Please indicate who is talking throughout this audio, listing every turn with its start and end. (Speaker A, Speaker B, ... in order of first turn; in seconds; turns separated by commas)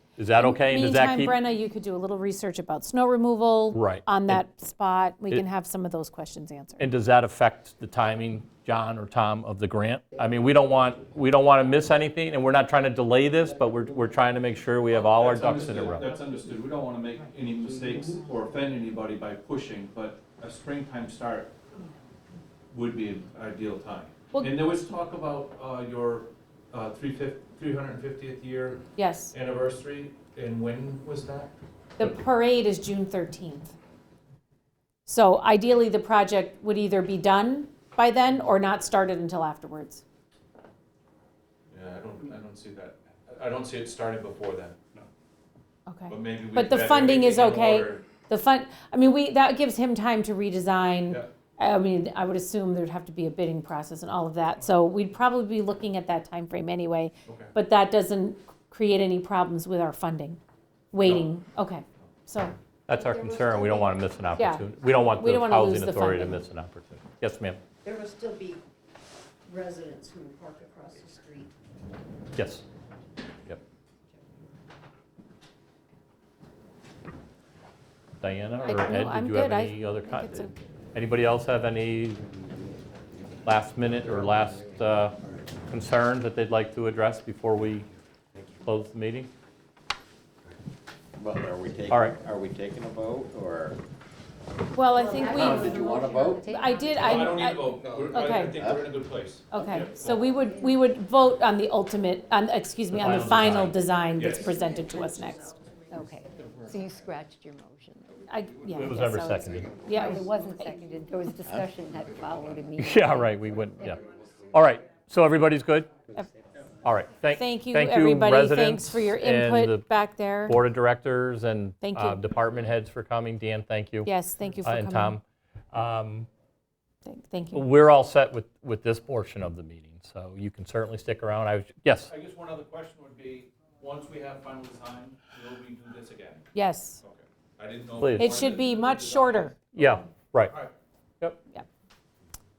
Speaker A: 0.2-1.4, Speaker B: 0.4-6.9, Speaker A: 3.7-4.4, Speaker A: 6.8-16.1, Speaker C: 15.0-21.5, Speaker C: 22.7-31.5, Speaker B: 24.3-24.7, Speaker B: 29.0-29.3, Speaker B: 32.0-33.8, Speaker B: 35.1-40.0, Speaker C: 41.7-44.8, Speaker B: 45.9-60.4, Speaker C: 46.1-48.1, Speaker C: 57.3-57.5, Speaker B: 60.9-62.5, Speaker A: 62.9-67.6, Speaker D: 62.9-64.0, Speaker B: 64.4-66.4, Speaker D: 67.8-68.6, Speaker D: 69.5-71.5, Speaker A: 72.4-72.6, Speaker A: 78.2-82.3, Speaker B: 78.6-80.5, Speaker A: 83.5-85.2, Speaker A: 85.7-87.9, Speaker A: 88.6-89.3, Speaker E: 91.2-93.8, Speaker A: 91.9-92.2, Speaker B: 94.7-95.9, Speaker F: 94.9-97.3, Speaker E: 95.3-96.4, Speaker D: 95.5-96.2, Speaker B: 96.4-98.6, Speaker C: 96.9-100.2, Speaker E: 98.6-98.9, Speaker B: 99.5-105.6, Speaker A: 102.9-103.8, Speaker C: 104.2-104.5, Speaker F: 105.9-108.1, Speaker B: 108.3-110.7, Speaker A: 108.7-109.7, Speaker F: 109.9-114.0, Speaker A: 112.8-114.0, Speaker A: 114.5-115.9, Speaker A: 116.8-119.9, Speaker B: 117.3-120.6, Speaker A: 120.5-124.1, Speaker B: 121.8-122.2, Speaker B: 124.0-125.2, Speaker A: 124.6-126.3, Speaker B: 127.0-127.7, Speaker A: 127.5-132.1, Speaker C: 132.1-136.4, Speaker B: 136.6-137.0, Speaker C: 137.0-140.7, Speaker A: 138.0-138.4, Speaker B: 138.2-139.6, Speaker A: 139.8-140.6